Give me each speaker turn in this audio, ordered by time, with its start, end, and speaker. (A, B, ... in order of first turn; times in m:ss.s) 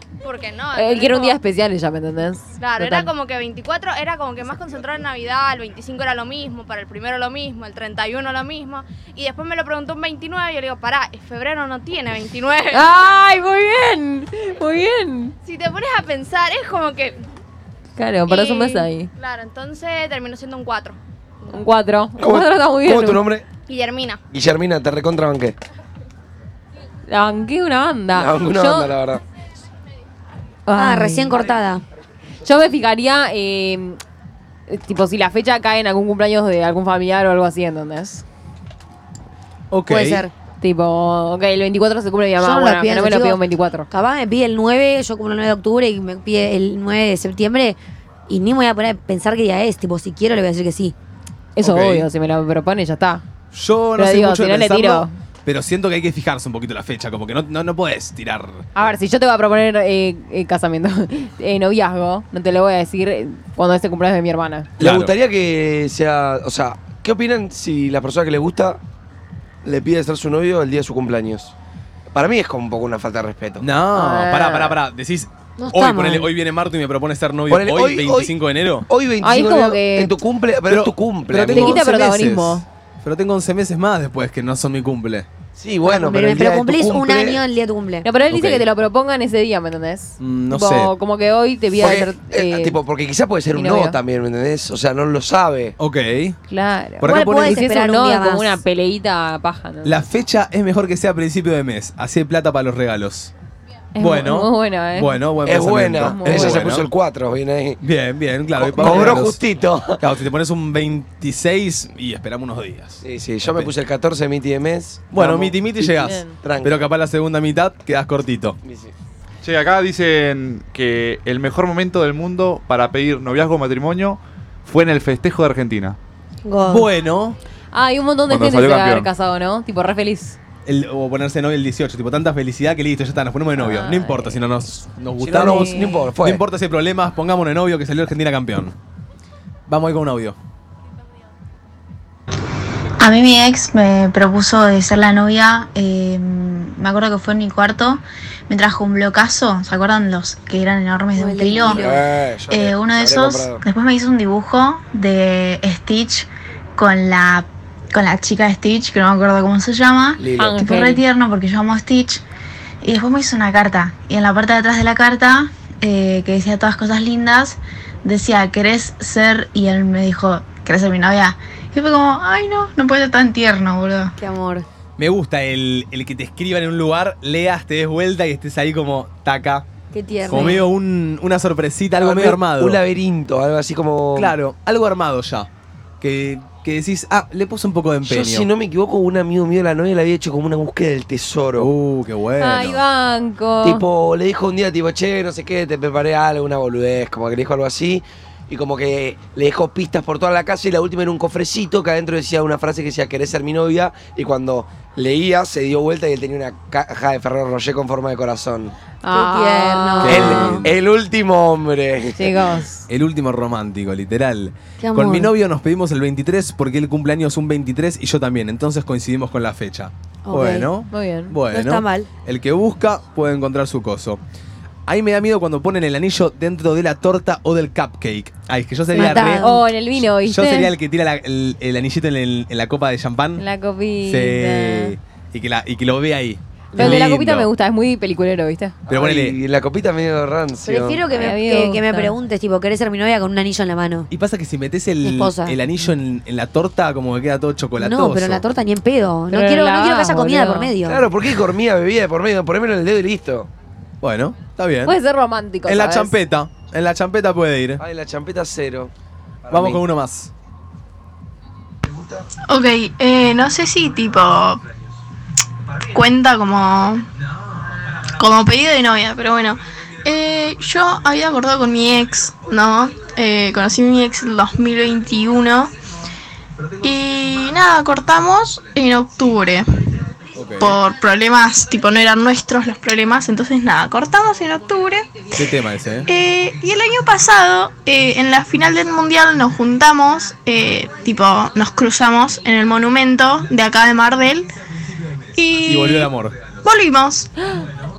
0:00.2-0:01.4 A
0:00.7-0:03.1 B
0:02.6-0:12.9 A
0:12.7-0:15.3 B
0:15.4-0:17.2 A
0:18.0-0:19.1 B
0:18.3-0:21.0 A
0:21.5-0:23.2 B
0:22.2-0:23.5 C
0:23.6-0:24.2 A
0:24.3-0:25.6 C
0:27.1-0:28.9 B
0:28.1-0:29.2 C
0:30.7-0:31.5 B
0:30.7-0:31.8 D
0:32.4-0:34.0 B
0:34.7-0:38.2 B
0:39.7-0:40.2 E
0:39.9-0:40.3 D
0:40.6-0:43.9 B
0:42.4-0:47.8 D
0:48.3-0:50.9 D
0:51.6-0:53.2 B
0:51.6-0:52.1 E
0:53.5-0:58.6 E
0:54.0-0:55.1 B
0:58.7-1:04.7 B
1:04.8-1:08.8 C
1:04.8-1:05.1 E
1:09.6-1:11.5 C
1:12.1-1:13.7 C
1:13.6-1:18.9 E
1:13.9-1:14.8 B
1:15.6-1:16.3 D
1:17.5-1:18.3 C
1:18.9-1:21.8 C
1:19.2-1:20.2 B
1:20.7-1:25.3 E
1:21.5-1:22.6 B
1:25.6-1:27.4 C
1:25.8-1:28.1 D
1:28.0-1:32.8 B
1:28.3-1:28.6 E
1:30.2-1:30.9 E
1:31.7-1:35.8 C
1:33.5-1:34.0 B
1:35.8-1:36.4 E
1:36.5-1:40.0 B
1:37.0-1:37.6 E
1:37.0-1:38.6 D
1:39.8-1:43.3 E
1:43.9-1:45.3 B
1:44.0-1:46.9 E
1:45.4-1:47.8 C
1:46.0-1:46.7 B
1:47.8-1:49.4 E
1:48.6-1:50.0 C
1:48.8-1:49.1 B
1:50.0-1:53.7 E
1:53.0-1:56.8 C
1:55.1-1:58.6 E
1:56.1-1:56.4 B
1:58.6-1:58.9 C
1:59.4-2:06.0 F
2:06.4-2:06.9 D
2:06.6-2:07.4 E
2:07.7-2:10.4 B
2:08.3-2:09.1 F
2:10.6-2:18.7 E
2:13.6-2:14.4 B
2:15.2-2:16.4 C
2:15.4-2:16.0 B
2:19.7-2:20.4 E
2:29.4-2:29.8 G
2:31.1-2:32.0 D
2:31.7-2:33.6 C
2:36.8-2:37.2 G
2:38.2-2:39.8 G
2:40.2-2:40.6 C
2:40.4-2:41.0 B
2:41.9-2:42.2 G
2:46.4-2:46.6 G
2:47.6-2:49.7 G
2:50.6-2:50.9 G
2:52.2-2:54.1 G
2:54.2-2:54.6 D
2:55.0-2:59.6 E
2:59.9-3:00.6 D
3:00.2-3:02.8 E
3:02.0-3:04.3 C
3:04.1-3:05.5 E
3:06.0-3:08.5 E
3:08.0-3:11.7 C
3:11.6-3:12.8 E
3:12.4-3:13.8 B
3:13.6-3:28.7 C
3:29.0-3:30.2 B
3:29.1-3:30.6 D
3:30.0-3:30.7 E
3:30.1-3:32.5 C
3:32.2-3:32.9 B
3:32.9-3:44.2 E
3:34.8-3:35.3 D
3:40.2-3:40.7 D
3:40.9-3:41.4 B
3:41.5-3:42.1 D
3:44.9-3:49.4 E
3:48.9-3:49.6 D
3:48.9-3:50.7 B
3:50.0-3:53.4 E
3:53.4-3:55.0 B
3:54.0-3:57.5 E
3:56.7-3:58.8 B
3:56.8-3:57.0 D
3:58.9-3:59.4 E
3:58.9-4:01.0 C
4:00.6-4:04.1 D
4:01.1-4:02.1 B
4:04.1-4:08.4 E
4:05.0-4:05.6 D
4:07.8-4:11.0 D
4:09.3-4:10.7 B
4:10.8-4:13.5 C
4:14.0-4:15.0 E
4:14.9-4:16.2 B
4:15.6-4:17.8 E
4:17.8-4:18.9 C
4:19.4-4:19.8 C
4:19.5-4:20.3 E
4:22.5-4:24.6 G
4:25.9-4:27.0 G
4:28.1-4:35.7 G
4:36.8-4:39.6 G
4:40.4-4:40.8 E
4:40.6-4:45.2 G
4:45.3-4:46.1 E
4:46.1-4:54.5 G
4:55.4-4:57.3 G
4:55.6-4:56.4 E
4:57.4-4:57.7 B